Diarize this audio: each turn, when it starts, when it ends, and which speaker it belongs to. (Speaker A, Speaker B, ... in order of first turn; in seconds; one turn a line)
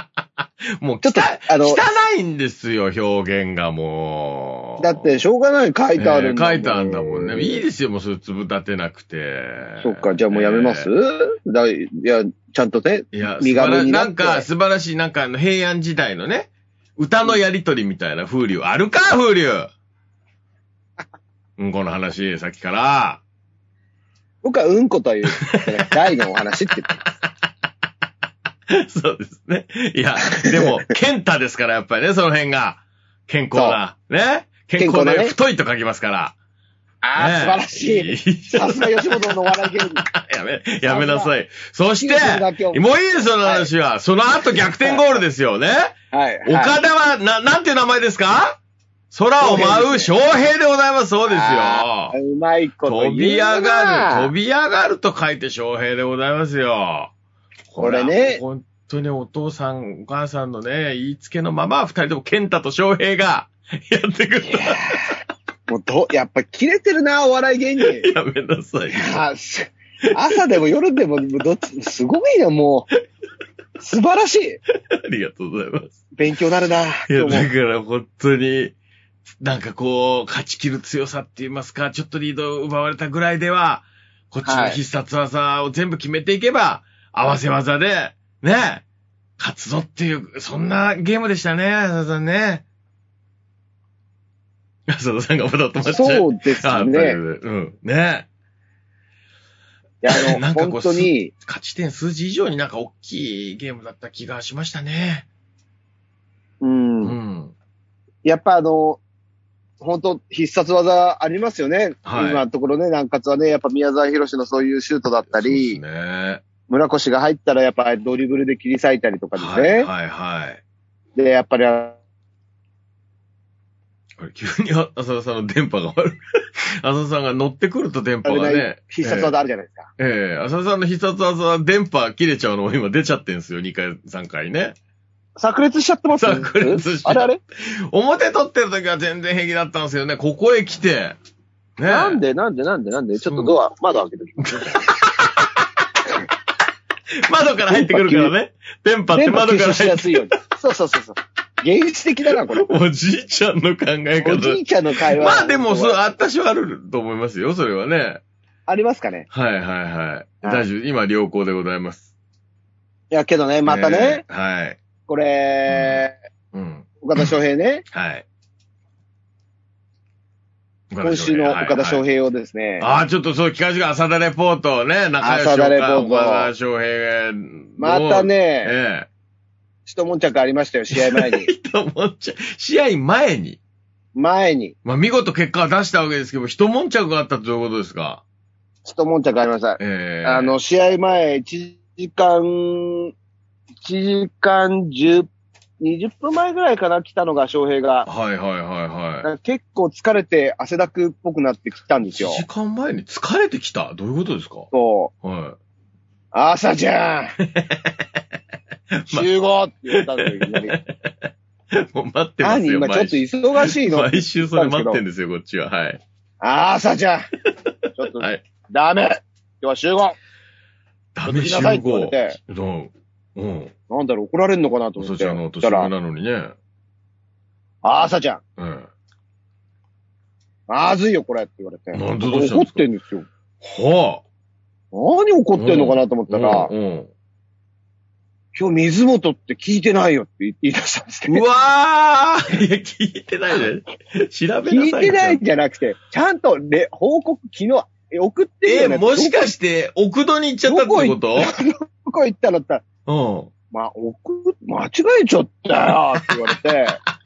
Speaker A: 0.8-5.0
Speaker B: 1.0-1.8
Speaker B: 4.8-7.6
Speaker A: 6.0-10.9
Speaker B: 9.8-14.5
Speaker A: 13.1-19.7
Speaker A: 21.6-23.2
Speaker B: 24.4-27.0
Speaker A: 25.4-25.9
Speaker A: 28.7-36.4
Speaker B: 30.4-30.7
Speaker B: 33.5-33.8
Speaker B: 34.8-35.3
Speaker B: 37.0-40.0
Speaker A: 37.1-48.6
Speaker B: 40.9-41.3
Speaker B: 42.0-43.7
Speaker B: 44.6-45.2
Speaker B: 46.1-46.8
Speaker A: 49.1-52.1
Speaker B: 49.4-50.1
Speaker B: 51.3-54.3
Speaker A: 52.9-57.1
Speaker A: 57.7-65.1
Speaker B: 57.8-58.4
Speaker B: 64.4-65.1
Speaker B: 65.7-68.1
Speaker A: 67.8-69.2
Speaker B: 68.9-72.9
Speaker B: 73.8-74.6
Speaker A: 74.9-76.0
Speaker B: 76.2-77.5
Speaker A: 77.1-78.8
Speaker A: 79.4-88.8
Speaker B: 84.4-84.8
Speaker A: 89.4-92.6
Speaker A: 94.9-98.3
Speaker B: 95.8-97.2
Speaker B: 100.0-101.3
Speaker A: 100.1-105.3
Speaker B: 106.6-107.2
Speaker A: 107.0-107.5
Speaker B: 108.2-109.0
Speaker B: 109.8-115.8
Speaker A: 112.0-112.4
Speaker A: 115.2-116.4
Speaker B: 116.7-119.9
Speaker A: 119.4-120.6
Speaker B: 121.2-122.0
Speaker A: 124.2-129.3
Speaker B: 128.2-129.9
Speaker A: 130.0-134.8
Speaker B: 135.4-137.4
Speaker A: 136.2-141.2
Speaker A: 141.8-142.2
Speaker B: 141.8-145.0
Speaker A: 143.2-143.6
Speaker A: 144.4-145.5
Speaker A: 147.2-150.3
Speaker B: 147.7-148.3
Speaker B: 149.1-152.7
Speaker A: 152.5-158.2
Speaker B: 154.2-156.0
Speaker B: 158.7-159.3
Speaker A: 159.3-162.1
Speaker B: 163.1-164.2
Speaker A: 163.7-164.8
Speaker B: 165.1-166.1
Speaker A: 165.7-167.3
Speaker B: 167.0-167.8
Speaker A: 167.9-168.2
Speaker A: 170.9-172.0
Speaker B: 171.0-172.9
Speaker A: 172.8-179.1
Speaker B: 175.2-176.5
Speaker B: 177.8-178.7
Speaker B: 179.9-181.5
Speaker A: 180.9-183.6
Speaker B: 184.1-184.8
Speaker A: 184.8-188.2
Speaker B: 188.8-193.1
Speaker A: 189.8-190.5
Speaker B: 193.8-195.3
Speaker B: 195.8-198.1
Speaker A: 198.0-199.3
Speaker B: 199.2-202.4
Speaker A: 202.1-204.7
Speaker B: 204.7-205.1
Speaker A: 205.2-205.6
Speaker B: 206.3-207.3
Speaker A: 207.4-207.9
Speaker A: 208.9-209.3
Speaker B: 209.1-210.8
Speaker A: 209.9-216.0
Speaker B: 212.4-215.0
Speaker B: 216.4-217.3
Speaker B: 218.0-220.2
Speaker A: 218.1-218.4
Speaker A: 221.1-223.7
Speaker B: 221.2-222.4
Speaker B: 223.9-225.9
Speaker A: 225.0-226.5
Speaker B: 227.8-228.4
Speaker A: 228.6-228.9
Speaker B: 230.7-233.3
Speaker A: 231.9-232.8
Speaker A: 233.6-234.2
Speaker B: 234.9-236.7
Speaker A: 235.6-237.1
Speaker B: 238.5-241.4
Speaker A: 241.3-245.4
Speaker B: 244.6-249.5
Speaker A: 248.7-251.5
Speaker B: 250.7-252.8
Speaker A: 253.1-253.5
Speaker B: 253.7-257.0